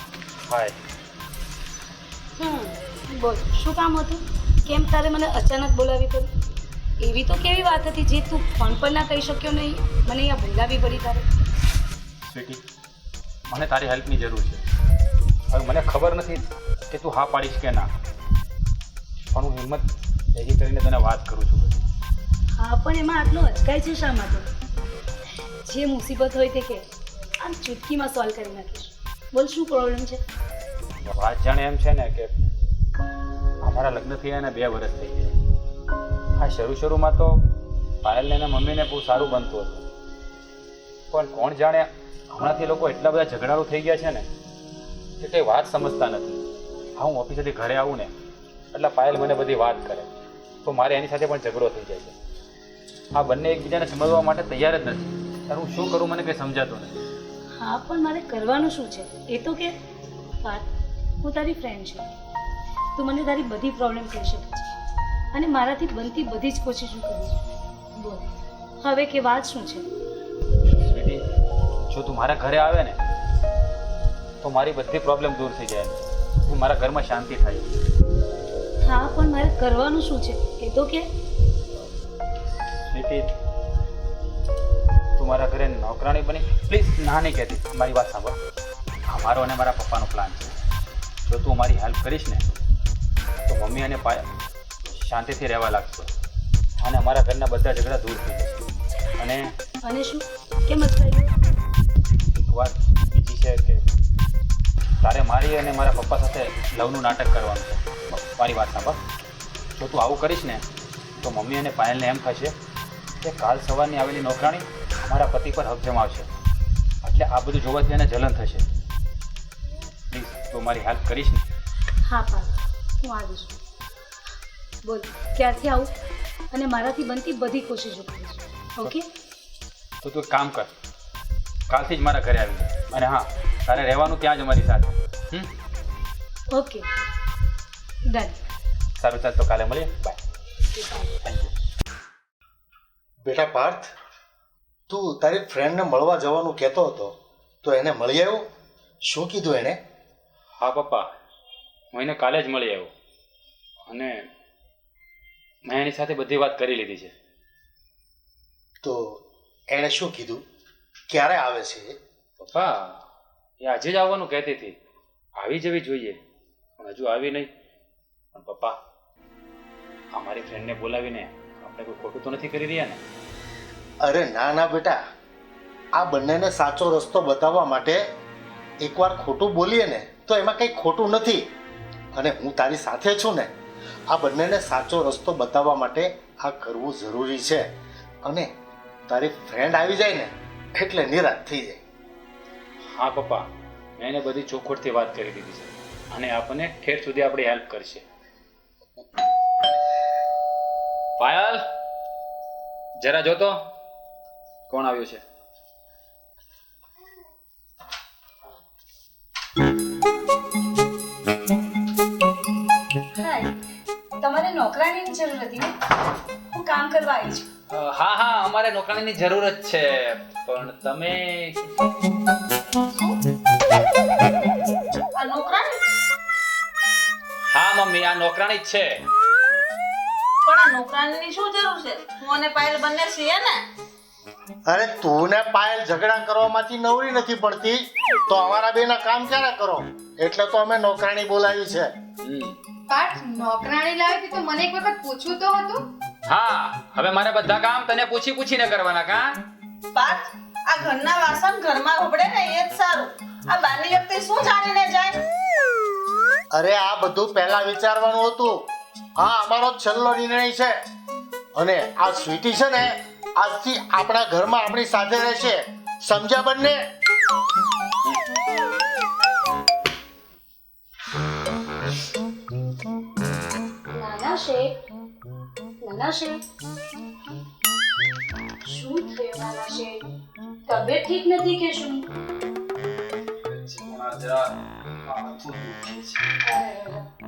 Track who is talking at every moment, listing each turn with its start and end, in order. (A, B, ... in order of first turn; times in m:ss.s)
0:00.4-0:00.7 A
0:02.4-0:06.3 B
0:07.0-0:11.2 B
0:12.2-0:12.6 A
0:13.5-0:14.6 A
0:15.5-0:17.9 A
0:19.3-0:21.8 A
0:22.6-0:24.5 B
0:25.6-0:26.9 B
0:27.4-0:30.2 B
0:31.0-0:32.3 A
0:33.6-0:35.3 A
0:36.4-0:37.4 A
0:38.0-0:39.8 A
0:41.1-0:44.3 A
0:45.2-0:46.4 A
0:47.0-0:48.1 A
0:48.7-0:50.1 A
0:50.6-0:52.1 A
0:53.1-0:56.9 A
0:57.6-0:59.7 B
1:01.2-1:02.1 B
1:02.9-1:04.7 B
1:05.3-1:07.4 B
1:08.0-1:08.2 B
1:08.8-1:09.9 B
1:10.8-1:11.2 A
1:11.9-1:13.0 A
1:14.4-1:17.7 A
1:18.8-1:21.1 B
1:22.9-1:23.3 A
1:25.2-1:28.4 A
1:29.1-1:30.5 A
1:31.3-1:32.4 A
1:33.4-1:34.3 A
1:34.9-1:36.1 A
1:36.8-1:38.6 A
1:39.2-1:39.5 A
1:39.8-1:41.3 B
1:42.3-1:43.8 A
1:45.0-1:49.0 A
1:49.8-1:50.6 A
1:51.2-1:52.5 A
1:53.2-1:56.3 A
1:57.0-1:58.6 A
2:00.1-2:01.4 A
2:02.0-2:03.6 B
2:04.8-2:05.9 B
2:06.5-2:09.1 B
2:10.0-2:10.7 A
2:11.7-2:15.5 A
2:16.5-2:16.8 B
2:18.1-2:18.4 B
2:19.0-2:20.2 A
2:20.7-2:21.1 B
2:21.2-2:21.5 A
2:23.2-2:23.9 C
2:24.9-2:28.4 C
2:29.0-2:29.8 C
2:30.6-2:31.1 A
2:31.9-2:32.9 A
2:33.9-2:34.3 A
2:35.7-2:37.1 A
2:38.8-2:40.4 C
2:41.1-2:41.9 C
2:42.4-2:43.0 A
2:43.6-2:44.8 A
2:45.4-2:46.2 A
2:46.8-2:47.5 A
2:48.3-2:48.8 A
2:50.1-2:53.0 A
2:54.0-2:55.0 C
2:55.9-2:58.0 C
2:58.8-3:01.5 C
3:02.2-3:03.5 C
3:04.1-3:07.7 C
3:08.2-3:08.5 C
3:09.1-3:11.8 C
3:12.9-3:18.0 A
3:21.2-3:21.6 A
3:23.0-3:23.6 A
3:24.7-3:25.2 A
3:33.2-3:33.5 B
3:34.2-3:35.7 B
3:36.5-3:37.5 B
3:37.7-3:41.6 A
3:42.9-3:43.2 D
3:45.1-3:45.8 D
3:47.5-3:49.0 A
3:50.4-3:53.6 D
3:54.7-4:01.9 C
4:02.2-4:02.6 A
4:02.9-4:05.8 E
4:06.2-4:09.4 A
4:09.9-4:15.2 D
4:16.5-4:18.7 C
4:19.2-4:20.8 C
4:21.5-4:26.8 C
4:33.9-4:34.8 B
4:35.8-4:36.4 B
4:38.6-4:40.0 B
4:40.7-4:42.1 B
4:43.4-4:46.3 A
4:46.4-4:47.1 B